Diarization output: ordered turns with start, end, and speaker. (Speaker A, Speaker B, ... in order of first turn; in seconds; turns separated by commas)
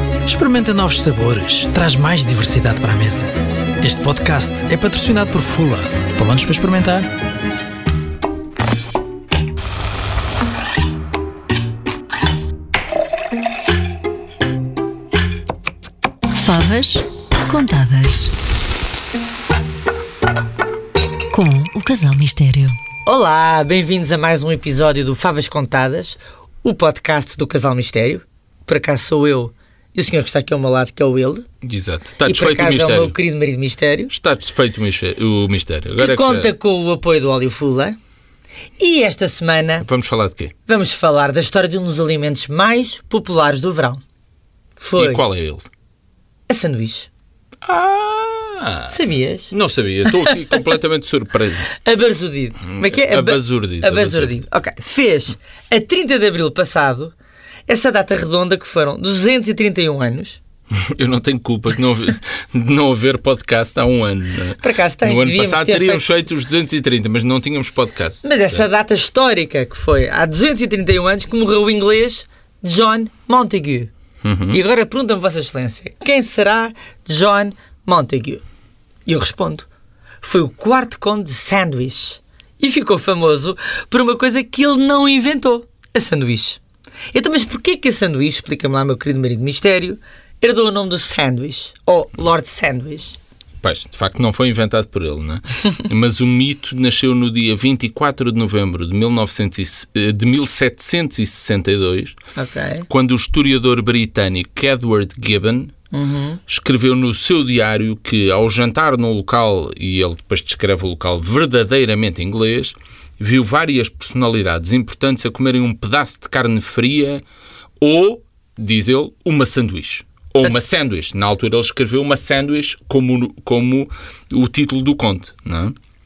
Speaker A: 0.2-7.1, Speaker B: 16.3-18.3, Speaker B: 21.3-22.8, Speaker C: 23.0-31.4, Speaker D: 31.6-33.1, Speaker C: 32.2-34.1, Speaker D: 34.1-36.5, Speaker C: 36.0-38.0, Speaker C: 38.8-39.9, Speaker D: 39.8-40.5, Speaker C: 40.7-44.0, Speaker C: 44.8-45.2, Speaker D: 45.0-45.6, Speaker C: 46.5-47.1, Speaker D: 47.6-49.0, Speaker C: 48.9-49.5, Speaker D: 49.5-51.7, Speaker C: 50.1-50.6, Speaker C: 51.8-57.1, Speaker D: 52.7-54.4, Speaker C: 57.7-60.4, Speaker D: 60.7-68.6, Speaker C: 64.6-66.0, Speaker C: 68.2-73.9, Speaker D: 74.2-74.6, Speaker C: 74.5-78.4, Speaker C: 79.0-79.7, Speaker C: 80.2-86.6, Speaker C: 87.1-93.2, Speaker D: 93.6-102.1, Speaker C: 102.3-102.9, Speaker D: 102.9-105.7, Speaker C: 105.9-106.4, Speaker D: 106.5-117.2, Speaker D: 117.8-125.7